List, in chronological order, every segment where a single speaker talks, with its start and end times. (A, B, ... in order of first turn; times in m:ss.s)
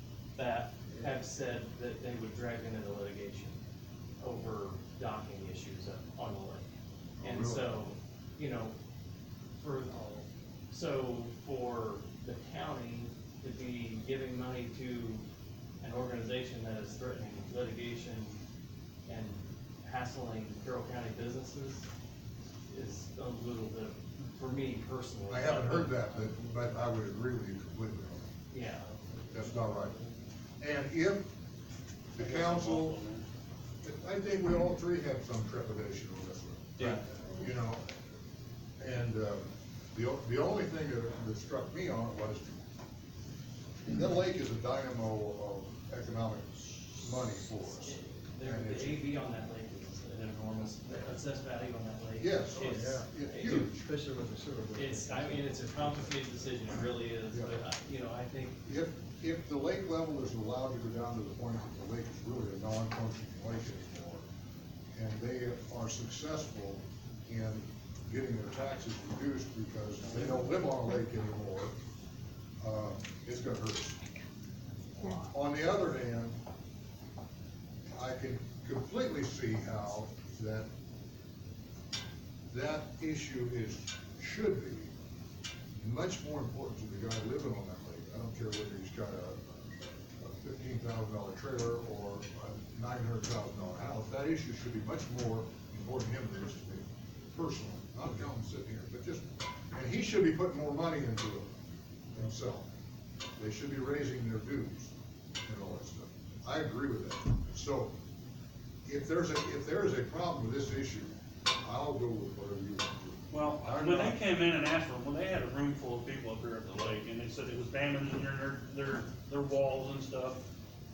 0:00.4-0:03.6 A
0:04.2-0:06.7 A
0:07.2-0:07.8 B
0:07.2-0:08.7 A
0:09.6-0:15.2 A
0:15.8-0:18.4 A
0:19.1-0:21.9 A
0:22.7-0:26.5 A
0:25.3-0:28.3 B
0:28.5-0:30.0 A
0:29.3-0:30.0 B
0:30.6-0:31.2 B
0:32.2-0:33.0 B
0:32.2-0:33.2 C
0:33.8-0:38.0 B
0:38.8-0:42.6 B
0:43.9-0:49.0 B
0:47.8-0:53.7 A
0:52.2-0:53.9 B
0:52.9-0:56.0 D
0:54.8-0:58.6 A
0:57.3-0:57.6 B
0:58.6-1:04.2 B
1:05.0-1:11.8 B
1:12.6-1:14.0 B
1:15.0-1:16.4 B
1:17.9-1:20.7 B
1:22.5-1:24.9 B
1:25.8-1:41.5 B
1:42.1-1:42.7 B
1:43.4-1:44.9 B
1:45.4-1:47.9 B
1:48.9-1:54.2 B
1:53.3-2:00.4 C